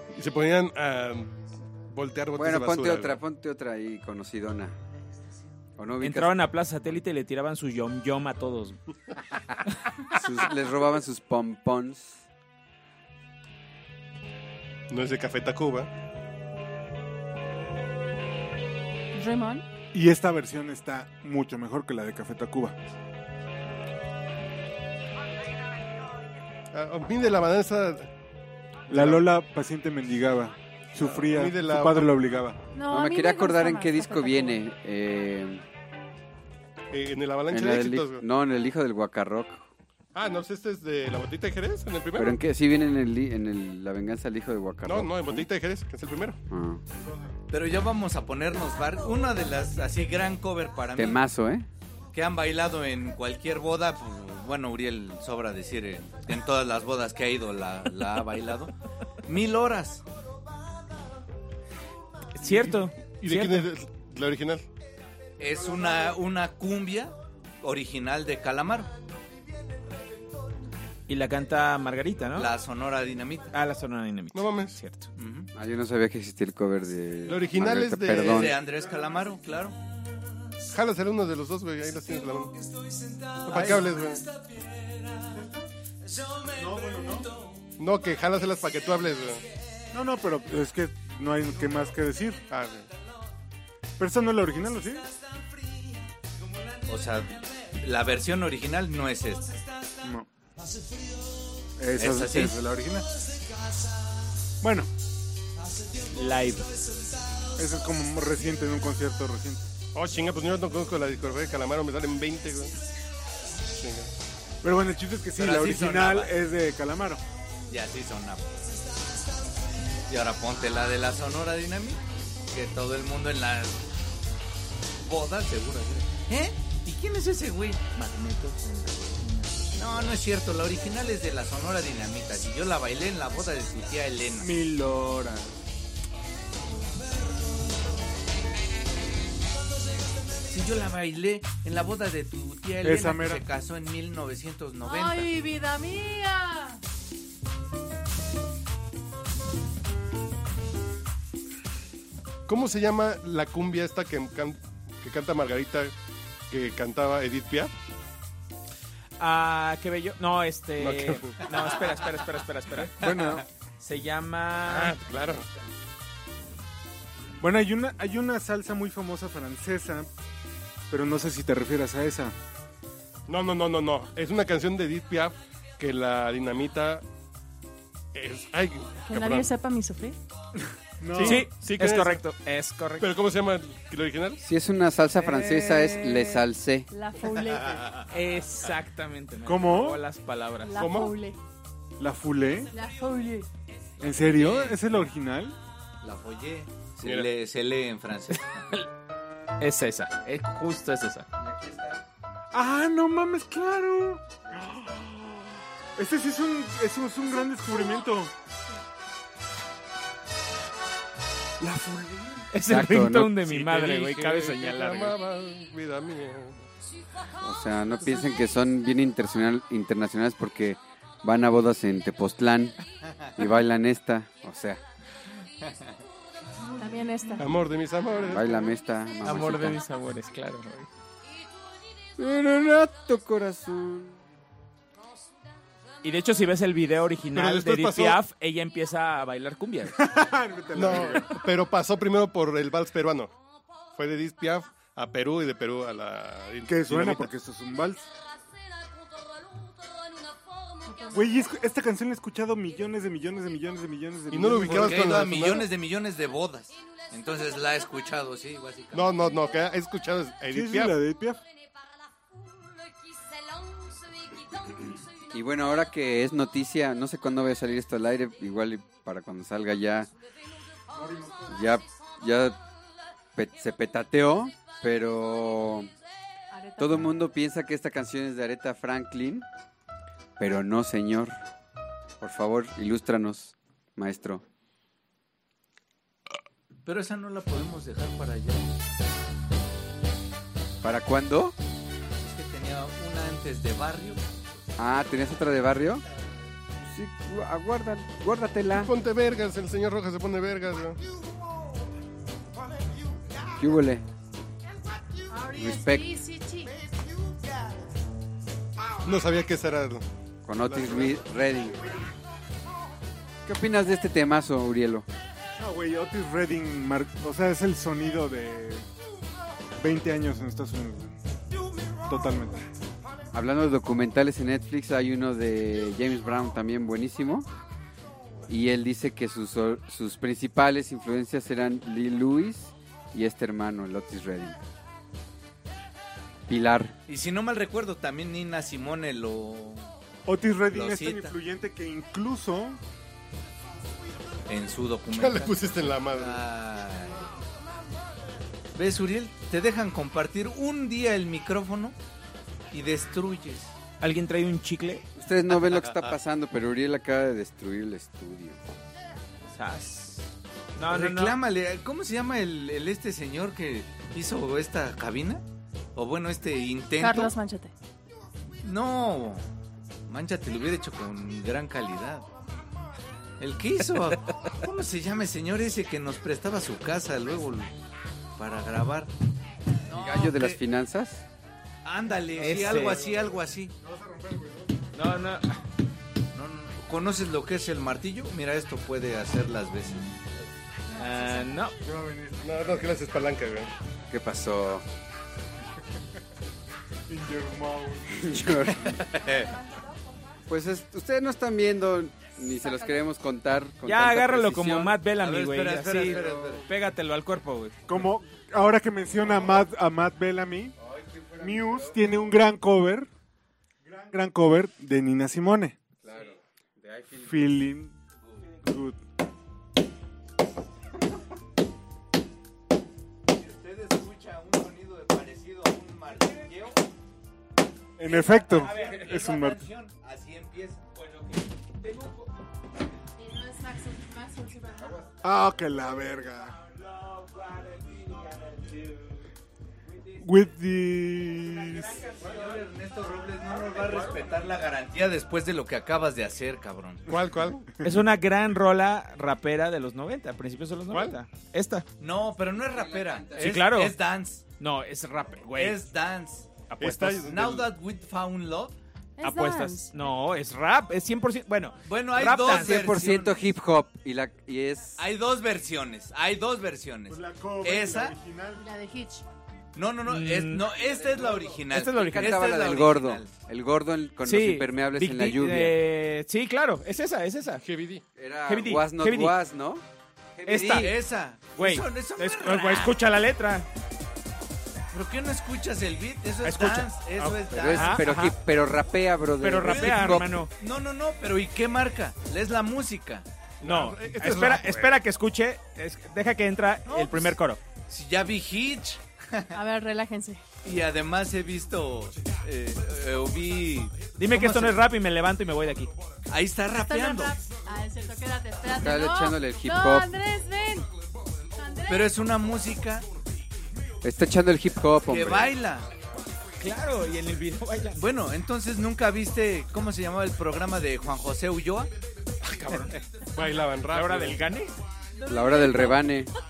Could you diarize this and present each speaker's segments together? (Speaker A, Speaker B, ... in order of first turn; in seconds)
Speaker A: 0.1-1.3, 1.9-3.2, 14.9-15.9, 26.7-28.1, 28.9-29.3, 31.0-32.2, 36.9-38.2, 40.1-42.4, 44.8-46.4, 62.4-64.7, 74.3-74.8, 77.2-78.6, 80.7-82.5, 83.4-84.2, 87.8-89.4, 92.5-92.9, 109.9-112.7, 113.8-114.1, 152.5-155.9, 156.5-157.7, 160.8-161.3, 164.6-165.5, 173.3-177.0, 178.1-179.5, 181.1-182.2, 183.0-184.4, 190.8-191.2, 213.4-216.7, 218.0-218.3, 227.4-228.7, 237.3-238.2, 240.7-243.3, 243.9-247.3, 254.3-255.7, 258.9-260.9, 298.7-301.0, 309.0-310.0, 310.6-311.3, 345.1-346.4, 392.4-393.7, 447.1-447.7, 450.9-451.1, 456.8-457.6, 477.6-478.0, 487.2-487.6, 493.6-495.0, 523.3-524.4
Speaker B: 2.3-4.7, 5.8-6.3, 10.1-12.2, 32.9-35.6, 37.5-39.7, 42.1-45.5, 46.5-46.8, 50.9-51.7, 75.5-78.6, 184.4-186.9, 201.4-202.0, 212.7-213.4, 217.4-222.7, 223.4-224.8, 228.3-229.8, 232.2-234.2, 265.3-270.1, 271.5-272.6, 273.3-275.9, 276.8-279.4, 280.4-281.4, 282.2-284.4, 290.8-291.6, 294.8-296.0, 296.8-298.9, 303.5-304.0, 305.5-306.1, 310.4-311.9, 313.4-315.1, 323.3-327.5, 328.5-334.6, 336.5-336.9, 355.1-358.6, 379.9-381.2, 394.1-394.8, 398.1-399.0, 400.5-405.0, 406.0-406.6, 410.8-412.0, 416.0-417.5, 452.7-453.6, 462.4-465.0, 471.1-475.8, 478.1-479.8, 480.4-480.9, 487.5-490.3, 508.6-510.1, 514.0-515.6, 525.3-526.3
Speaker C: 6.0-8.8, 62.3-63.7, 71.1-72.5, 73.5-75.1, 106.1-106.7, 127.9-130.2, 159.2-163.0, 163.8-165.0, 181.2-183.1, 185.1-186.4, 188.1-190.9, 199.6-201.3, 212.5-215.2, 229.2-230.9, 236.0-239.9, 354.0-355.1, 359.5-361.4, 382.4-383.1, 384.9-385.6, 391.0-391.8, 403.8-407.8, 428.1-429.1, 431.0-432.3, 436.7-439.2, 441.5-442.6, 447.8-451.9, 453.4-453.9, 454.6-455.8, 456.7-457.2, 459.2-462.9, 470.0-470.7, 471.7-472.4, 474.2-477.6, 478.5-479.4, 480.4-480.9, 481.5-483.7, 486.4-486.9, 487.6-488.3, 489.4-490.5, 493.6-497.6, 504.1-505.9, 516.6-518.0, 522.5-523.0, 523.9-524.7
Speaker D: 19.1-19.6, 32.7-34.6, 144.8-146.8, 179.1-180.2, 186.9-187.8, 190.6-191.4, 192.7-193.5, 226.8-227.5, 250.8-251.5, 276.5-277.0, 305.3-306.7, 367.0-367.7, 390.9-391.5, 433.2-435.0, 459.2-459.9, 468.6-469.2, 499.5-500.4, 506.9-510.9, 511.5-512.1, 525.1-526.2
Speaker E: 19.9-22.7, 28.9-32.6, 47.0-47.3, 85.3-85.7, 86.5-87.3, 89.9-92.4, 94.0-95.1, 100.0-100.3, 101.8-103.0, 104.6-104.9, 107.6-109.7, 114.6-117.2, 134.4-135.5, 142.8-143.4, 163.0-163.4, 167.4-170.1, 170.9-172.3, 181.0-181.4, 189.4-190.0, 192.0-192.7, 194.0-195.6, 202.5-208.3, 211.6-212.5, 239.9-241.4, 246.7-248.0, 251.1-255.4, 260.5-261.4, 270.9-271.5, 315.6-318.9, 319.8-321.1, 322.1-322.6, 340.2-342.8, 382.5-384.8, 391.8-392.8, 397.1-398.4, 407.9-410.7, 411.4-413.1, 413.8-415.8, 417.2-417.9, 418.6-419.0, 428.0-429.6, 435.2-436.6, 440.2-442.0, 467.1-468.6
Speaker F: 47.5-51.2, 52.1-58.7, 59.2-60.0, 65.4-68.9, 72.3-73.5, 75.2-75.5, 78.2-79.8, 96.8-99.5, 102.0-102.6, 115.4-116.3, 117.7-118.6, 120.1-123.8, 125.0-127.8, 129.7-134.5, 140.5-145.3, 161.4-162.2, 163.0-163.4, 187.4-188.1, 194.0-194.8, 196.0-198.7, 223.1-223.3, 225.6-226.0, 254.7-259.2, 286.8-288.7, 292.2-294.2, 337.1-339.9, 340.7-341.3, 344.5-347.3, 348.7-352.0, 352.7-353.8, 355.5-356.1, 360.8-365.4, 365.9-367.3, 368.6-369.4, 370.1-372.3, 373.4-377.7, 378.4-379.1, 379.9-380.6, 381.8-383.7, 386.3-390.2, 398.6-399.5, 405.2-406.6, 423.3-426.8, 428.1-431.0, 442.1-447.0, 452.0-454.4, 455.6-456.6, 457.2-458.8, 461.9-463.5, 465.0-468.1, 469.7-473.3, 480.6-482.9, 484.9-488.1, 489.6-493.2, 496.9-499.6, 500.6-504.7, 506.3-507.3, 511.9-513.1, 515.1-515.9, 518.0-521.9